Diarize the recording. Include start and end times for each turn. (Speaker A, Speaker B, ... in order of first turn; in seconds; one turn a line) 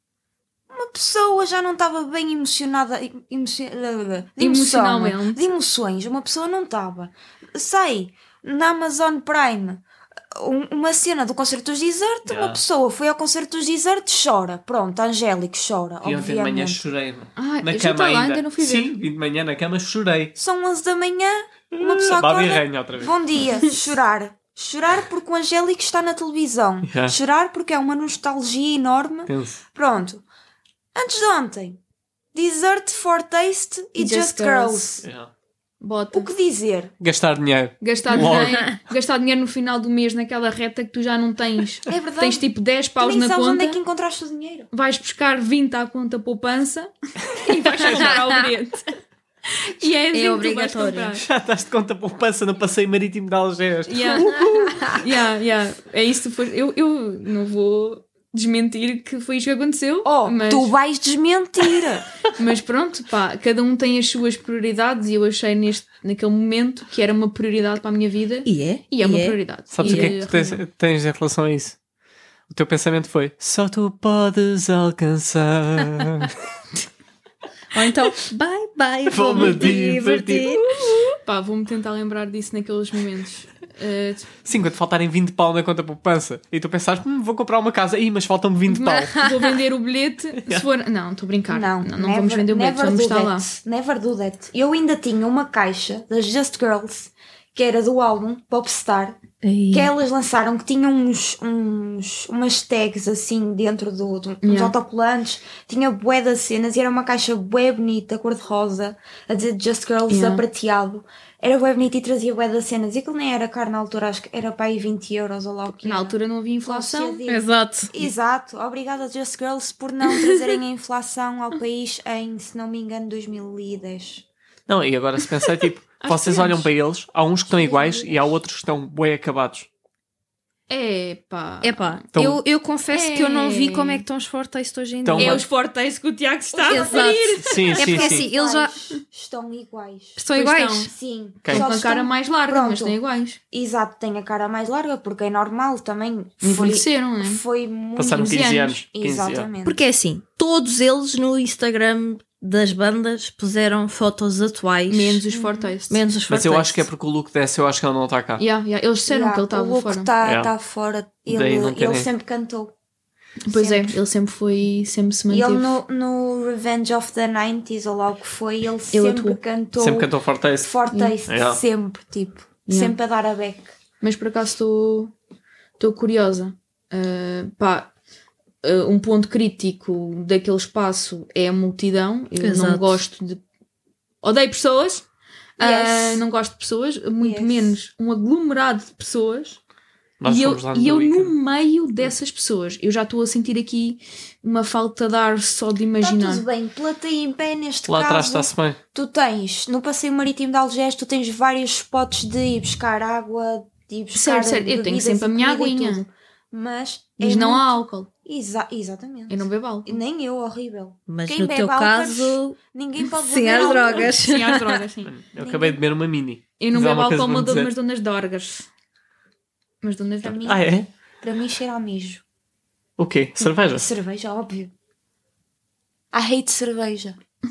Speaker A: 0.7-9.8
Speaker B: 4.4-5.5
Speaker A: 10.4-16.8
Speaker C: 12.2-12.6
Speaker C: 16.0-20.3
Speaker B: 17.3-18.9
Speaker A: 20.3-30.2
Speaker C: 21.8-23.1
Speaker C: 26.8-27.1
Speaker C: 29.3-29.6
Speaker A: 30.9-31.8
Speaker A: 32.3-35.0
Speaker B: 34.0-35.0
Speaker C: 35.0-35.3
Speaker B: 35.8-36.3
Speaker A: 36.1-36.9
Speaker C: 37.0-38.6
Speaker B: 37.8-43.8
Speaker A: 41.9-42.4
Speaker A: 43.0-44.7
Speaker B: 44.7-48.8
Speaker C: 47.7-48.1
Speaker D: 47.9-48.4
Speaker B: 49.7-51.2
Speaker D: 50.1-51.1
Speaker C: 51.1-54.9
Speaker B: 53.9-60.7
Speaker A: 60.0-62.1
Speaker B: 62.4-70.6
Speaker D: 68.5-70.1
Speaker C: 69.7-71.8
Speaker C: 72.5-76.3
Speaker D: 77.7-80.9
Speaker C: 79.0-80.6
Speaker B: 81.2-84.3
Speaker C: 84.4-89.3
Speaker B: 88.7-93.5
Speaker C: 90.4-90.7
Speaker A: 91.5-99.2
Speaker D: 99.4-99.9
Speaker A: 99.7-124.2
Speaker B: 104.4-104.7
Speaker B: 110.1-110.4
Speaker B: 115.7-117.2
Speaker D: 117.3-117.9
Speaker C: 124.7-129.7
Speaker B: 126.0-126.7
Speaker A: 127.5-128.2
Speaker B: 130.7-132.0
Speaker D: 131.6-135.4
Speaker C: 132.1-132.4
Speaker B: 132.9-134.1
Speaker C: 135.0-135.4
Speaker B: 135.2-138.0
Speaker A: 136.5-140.2
Speaker D: 136.7-138.8
Speaker C: 137.4-138.3
Speaker D: 140.2-140.9
Speaker B: 140.2-140.9
Speaker A: 140.9-143.0
Speaker C: 141.4-141.7
Speaker B: 141.4-143.4
Speaker A: 143.5-149.8
Speaker B: 146.4-147.4
Speaker C: 147.9-149.5
Speaker B: 148.0-148.9
Speaker D: 149.6-155.2
Speaker B: 154.9-156.1
Speaker A: 155.3-155.7
Speaker D: 155.9-156.9
Speaker C: 156.3-158.4
Speaker B: 158.4-160.1
Speaker A: 159.1-162.7
Speaker C: 160.2-160.5
Speaker C: 161.3-162.1
Speaker B: 163.4-165.8
Speaker A: 163.5-164.0
Speaker A: 165.3-173.7
Speaker B: 168.9-169.4
Speaker C: 169.8-171.6
Speaker B: 170.8-171.2
Speaker B: 172.7-173.0
Speaker B: 174.0-175.1
Speaker B: 175.8-177.9
Speaker B: 178.6-183.4
Speaker D: 182.4-183.0
Speaker B: 184.2-185.1
Speaker B: 185.6-189.6
Speaker A: 185.6-186.2
Speaker A: 187.2-187.8
Speaker C: 190.2-191.3
Speaker B: 190.2-196.4
Speaker A: 196.0-214.2
Speaker C: 197.9-198.8
Speaker B: 204.1-206.1
Speaker B: 207.2-208.1
Speaker B: 209.3-210.0
Speaker D: 211.1-212.5
Speaker D: 213.1-214.8
Speaker B: 214.2-215.2
Speaker C: 215.0-217.7
Speaker A: 215.4-215.8
Speaker B: 216.6-218.7
Speaker B: 219.8-220.4
Speaker A: 220.2-220.7
Speaker C: 220.4-220.9
Speaker A: 221.2-222.2
Speaker C: 223.0-223.9
Speaker A: 223.4-224.7
Speaker A: 226.1-227.2